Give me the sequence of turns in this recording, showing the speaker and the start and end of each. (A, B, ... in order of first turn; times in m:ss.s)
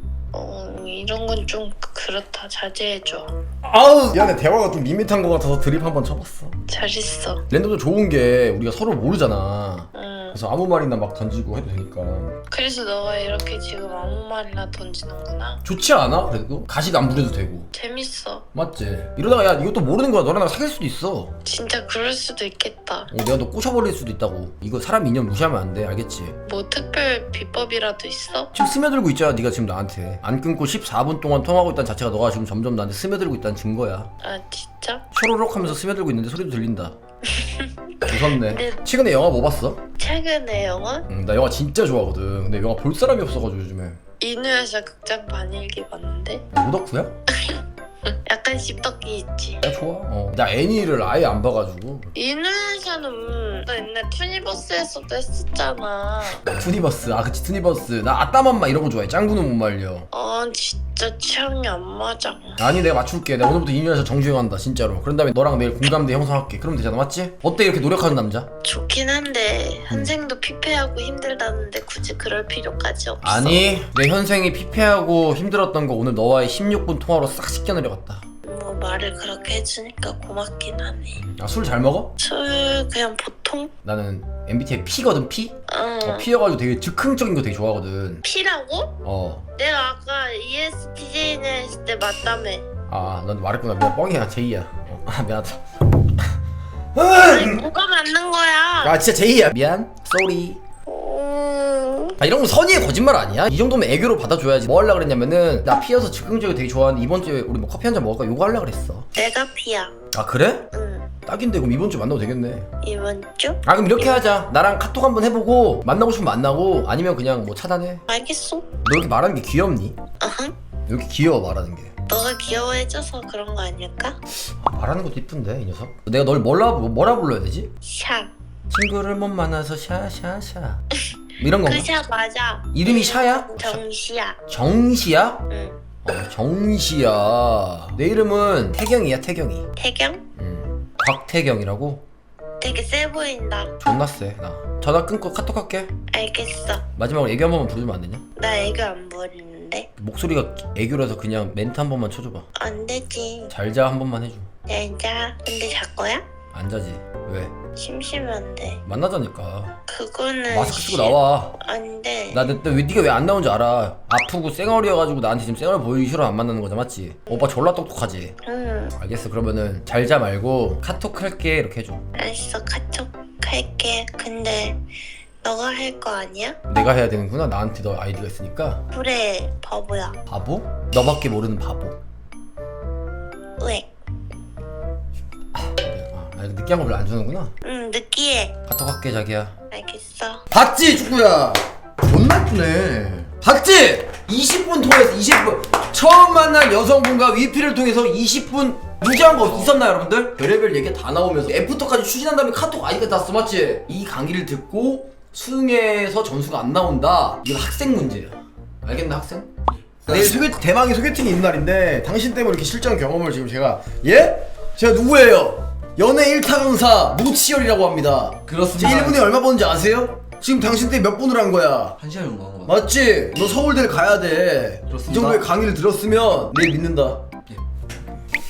0:00.3-0:03.3 A
0:03.6-0:06.6 B
0:06.7-0:07.4 A
0:07.5-0:12.4 B
0:09.9-0:10.4 A
0:12.5-0:15.6 A
0:15.6-0:17.7 B
0:17.7-0:18.4 A
0:18.5-0:21.3 B
0:21.4-0:23.1 A
0:23.1-0:26.4 B
0:26.4-0:28.5 A
0:28.5-0:34.1 B
0:34.2-0:35.0 A
0:35.1-0:36.9 B
0:37.3-0:38.8 A
0:38.0-0:39.8 B
0:40.0-0:41.1 A
0:41.1-0:44.0 B
0:44.2-0:46.4 A
0:46.5-0:47.1 B
0:48.2-0:49.6 A
0:49.6-0:52.1 B
0:52.1-0:56.4 A
0:56.4-1:00.1 B
1:00.1-1:02.6 A
1:02.6-1:08.5 B
1:08.6-1:13.7 A
1:09.9-1:10.2 B
1:13.2-1:18.2 B
1:18.4-1:21.2 A
1:21.1-1:22.1 B
1:22.2-1:23.7 A
1:23.8-1:28.2 B
1:25.7-1:26.3 A
1:28.2-1:28.9 A
1:29.0-1:29.4 B
1:29.6-1:32.6 A
1:32.9-1:35.6 B
1:36.9-1:37.7 B
1:37.2-1:39.0 A
1:38.8-1:40.6 B
1:40.9-1:42.2 A
1:42.2-1:49.1 B
1:49.1-1:50.0 A
1:50.1-1:50.7 B
1:50.7-1:51.1 A
1:51.2-1:52.7 B
1:52.8-1:54.1 A
1:53.6-1:58.0 B
1:58.1-1:58.7 A
1:58.8-2:00.0 B
2:00.2-2:00.6 A
2:00.9-2:01.9 B
2:02.1-2:04.2 A
2:04.4-2:07.7 B
2:07.8-2:08.3 A
2:08.7-2:10.8 B
2:11.4-2:11.9 B
2:11.6-2:14.4 A
2:12.7-2:13.8 B
2:14.5-2:15.4 B
2:15.5-2:15.8 A
2:16.0-2:19.7 B
2:19.8-2:20.2 A
2:20.4-2:22.0 B
2:22.6-2:23.8 A
2:23.8-2:25.9 B
2:26.1-2:26.9 A
2:26.9-2:28.2 B
2:28.4-2:29.9 A
2:30.0-2:32.4 B
2:32.6-2:33.5 A
2:33.5-2:34.5 B
2:34.7-2:36.2 A
2:36.5-2:37.5 B
2:37.8-2:38.8 A
2:38.8-2:39.8 B
2:39.9-2:42.5 A
2:40.5-2:41.6 B
2:42.3-2:48.4 B
2:48.4-2:48.9 A
2:48.9-2:52.0 B
2:52.2-2:54.8 A
2:55.4-2:56.6 A
2:56.7-2:58.8 B
2:58.9-3:00.2 A
3:00.3-3:02.0 B
3:03.6-3:03.9 A
3:05.5-3:07.5 B
3:07.6-3:08.6 A
3:08.7-3:09.5 B
3:09.7-3:10.4 A
3:10.5-3:29.5 B
3:29.8-3:30.5 C
3:30.1-3:42.0 B
3:38.5-3:39.2 C
3:42.0-3:42.8 C
3:42.6-3:47.3 B
3:44.9-3:45.4 C